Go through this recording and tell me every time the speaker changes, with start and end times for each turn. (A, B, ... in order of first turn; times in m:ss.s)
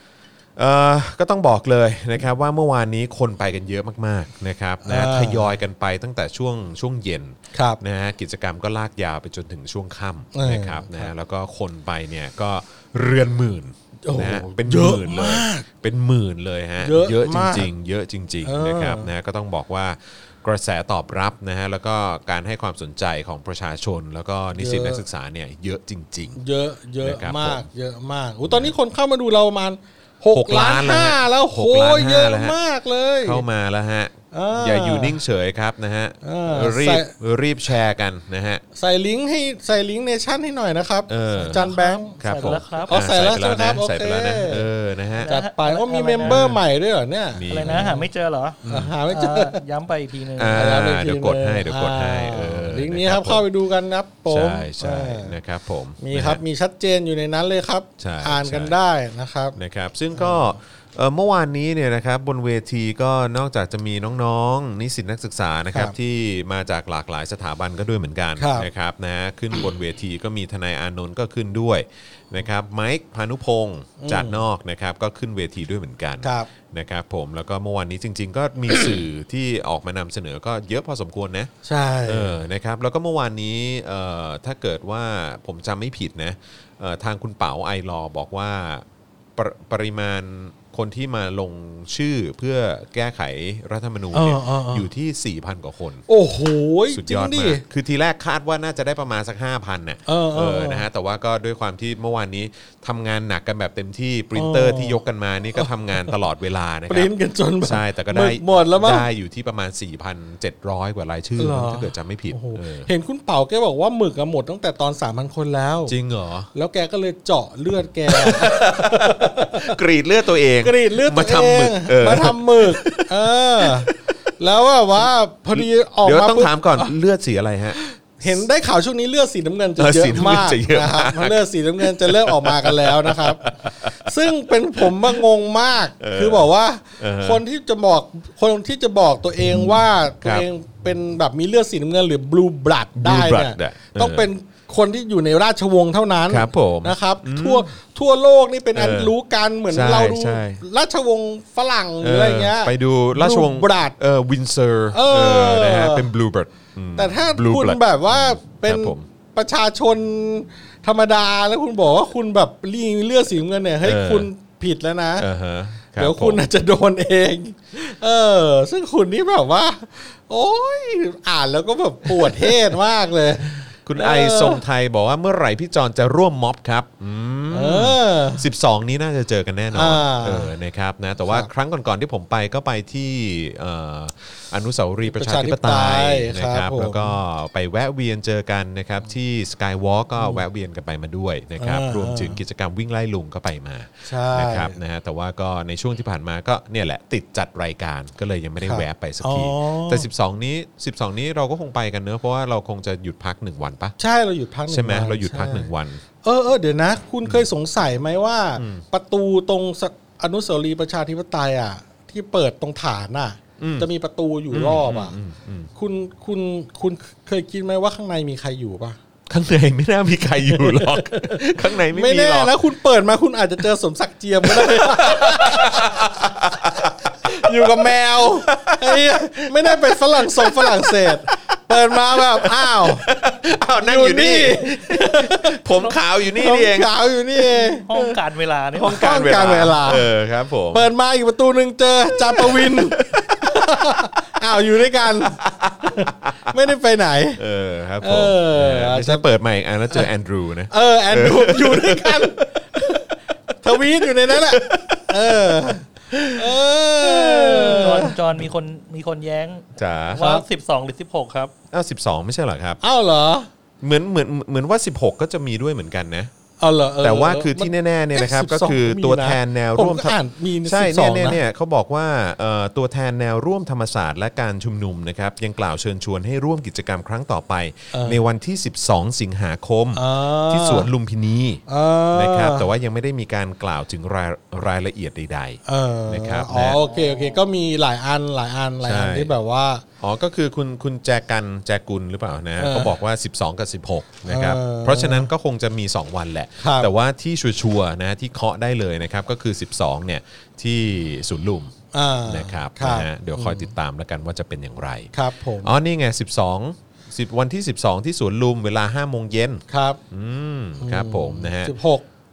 0:00.6-0:26.4 A
0:04.8-0:05.5 B
0:07.5-0:07.8 B
0:10.3-0:11.1 B
0:14.0-0:15.6 B
0:16.8-0:17.7 B
0:18.4-0:19.1 B
0:24.6-0:25.0 B
0:26.4-0:33.4 B
0:27.0-0:27.7 A
0:28.4-0:28.7 A
0:30.3-0:32.6 A
0:33.2-0:38.6 A
0:34.3-0:35.2 B
0:36.2-0:37.1 B
0:38.8-0:42.2 B
0:41.1-0:41.6 A
0:41.5-0:43.0 C
0:42.2-0:45.3 A
0:42.8-0:44.7 B
0:45.2-0:46.6 C
0:45.2-0:48.1 B
0:46.2-0:46.6 A
0:47.3-0:47.9 A
0:47.5-0:50.7 C
0:48.6-0:48.9 A
0:48.7-0:49.6 B
0:50.4-0:53.4 A
0:50.5-0:55.4 B
0:54.3-0:56.4 A
0:56.0-0:59.6 B
0:58.0-0:58.8 A
0:59.6-1:21.5 A
1:00.1-1:00.5 B
1:08.4-1:08.7 B
1:14.0-1:14.4 B
1:16.2-1:16.5 B
1:21.6-1:22.4 B
1:22.0-1:28.8 A
1:29.4-1:36.0 A
1:34.1-1:34.9 B
1:36.1-1:37.6 B
1:36.9-1:47.1 A
1:40.1-1:40.8 B
1:44.3-1:45.0 B
1:46.9-1:49.1 B
1:47.6-1:52.9 A
1:51.4-1:55.9 B
1:55.9-1:56.5 A
1:56.5-1:59.8 B
1:58.1-2:04.0 A
2:00.6-2:06.9 B
2:05.5-2:08.4 A
2:07.8-2:33.9 B
2:09.8-2:15.2 A
2:16.0-2:17.4 A
2:19.5-2:20.4 A
2:23.0-2:24.3 A
2:26.3-2:27.7 A
2:28.7-2:29.1 A
2:29.7-2:30.6 A
2:32.0-2:39.1 A
2:34.9-2:36.1 B
2:37.0-2:45.3 B
2:43.8-2:44.3 A
2:45.2-2:46.4 A
2:46.0-2:54.6 B
2:52.1-2:52.6 A
2:53.8-3:23.9 A
2:57.5-2:58.5 B
2:59.7-3:00.5 B
3:05.1-3:07.2 B
3:11.6-3:12.4 B
3:14.1-3:14.8 B
3:18.6-3:20.1 B
3:24.0-3:25.7 B
3:24.7-3:26.0 A
3:26.2-3:35.2 B
3:28.6-3:28.8 A
3:33.6-3:33.9 A
3:34.5-3:35.7 A
3:35.8-3:39.0 B
3:39.3-3:42.5 A
3:40.5-3:53.1 B
3:44.4-3:56.9 A
3:53.8-3:55.6 B
3:56.3-3:57.9 B
3:57.6-3:59.1 C
3:57.9-3:58.2 A
3:58.7-4:00.9 A
3:58.8-4:00.1 B
4:00.7-4:07.4 B
4:02.1-4:04.2 A
4:05.0-4:06.6 A
4:07.4-4:16.4 A
4:08.0-4:09.3 B
4:10.7-4:13.1 B
4:13.6-4:18.2 B
4:17.0-4:17.9 A
4:17.4-4:21.5 C
4:19.8-4:20.3 A
4:20.2-4:20.4 B
4:21.7-4:22.8 A
4:22.8-4:23.5 B
4:23.8-4:26.3 A
4:26.6-4:31.4 B
4:27.0-4:41.6 A
4:37.9-4:38.2 B
4:40.0-4:40.9 B
4:41.7-4:42.7 B
4:42.1-4:46.8 A
4:45.6-4:49.8 B
4:48.8-4:49.3 A
4:50.0-5:01.8 A
4:52.6-4:52.9 B
4:54.3-4:55.3 B
4:56.6-4:56.9 B
5:01.9-5:03.7 B
5:02.3-5:11.7 A
5:05.1-5:05.7 B
5:09.7-5:10.0 B
5:10.8-5:12.0 B